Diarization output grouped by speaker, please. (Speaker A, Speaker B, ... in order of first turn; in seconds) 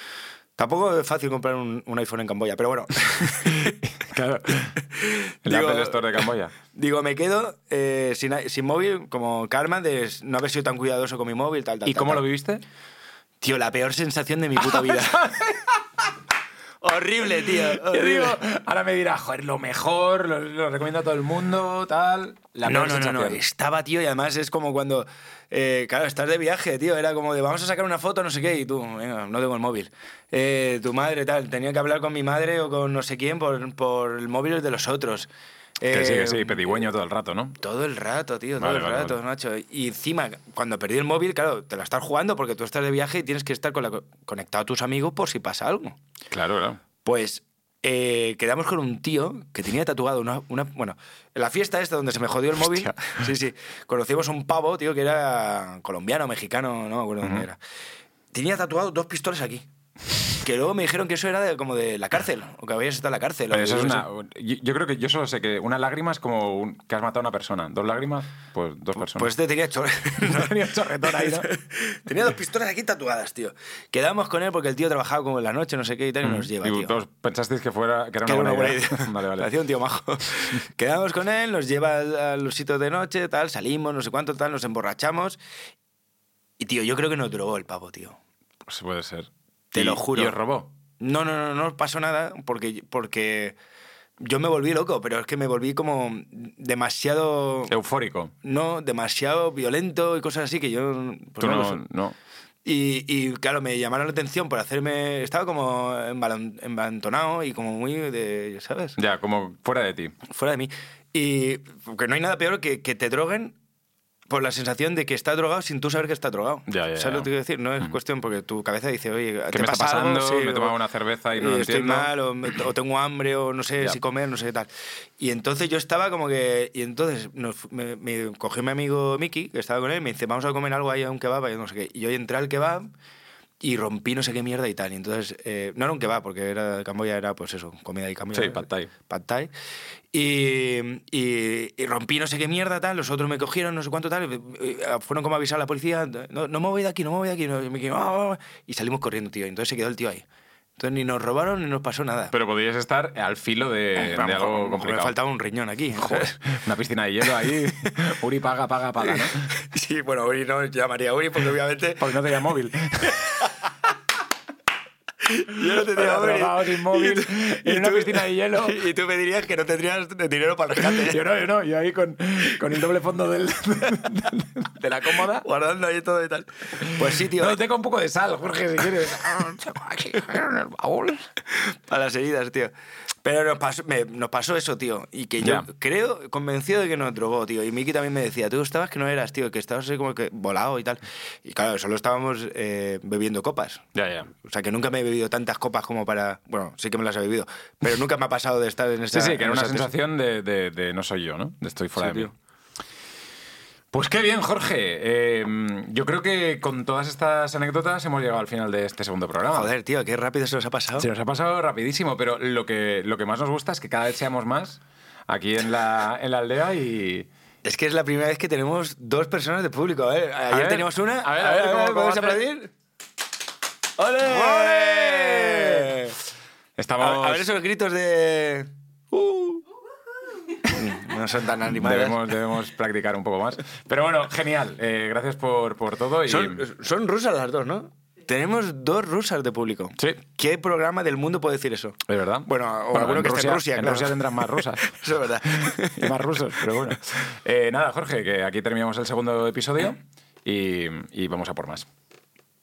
Speaker A: 0.6-3.8, 4.9-12.2, 13.4-15.3, 16.8-18.4, 22.6-35.3, 35.8-36.9, 37.6-46.0, 47.0-57.6, 58.3-59.6, 60.3-64.0, 69.0-76.9, 78.2-85.4, 86.6-88.2, 89.7-90.4, 91.0-93.5, 94.2-97.7, 98.4-101.8, 102.6-109.0, 110.2-113.6, 114.3-120.7, 121.3-132.8, 133.6-139.5, 140.1-150.2, 150.8-152.3, 154.0-156.4, 159.0-162.1, 165.2-171.2, 175.3-177.6, 181.5-182.7, 183.2-199.9, 202.0-202.3, 209.5-211.1, 217.6-222.7, 224.0-226.2, 227.0-229.6, 230.7-232.2, 236.3-246.3
Speaker B: 3.4-4.8, 5.4-6.5, 11.8-12.6, 14.6-15.8, 17.4-23.4, 35.9-37.6, 38.6-39.2, 46.3-46.8, 63.5-69.3, 70.2-71.5, 76.2-79.5, 88.7-90.7, 97.7-98.3, 101.4-102.2, 109.0-110.1, 116.7-117.3, 119.5-122.1, 138.3-138.9, 152.3-155.1, 155.9-159.5, 162.0-163.5, 165.7-168.8, 170.8-175.4, 176.8-181.3, 185.4-185.7, 193.9-194.3, 199.1-202.3, 203.9-209.7, 211.0-217.3, 220.5-222.4, 224.2-225.9, 226.8-227.5, 231.7-236.6, 242.1-244.9, 245.4-251.9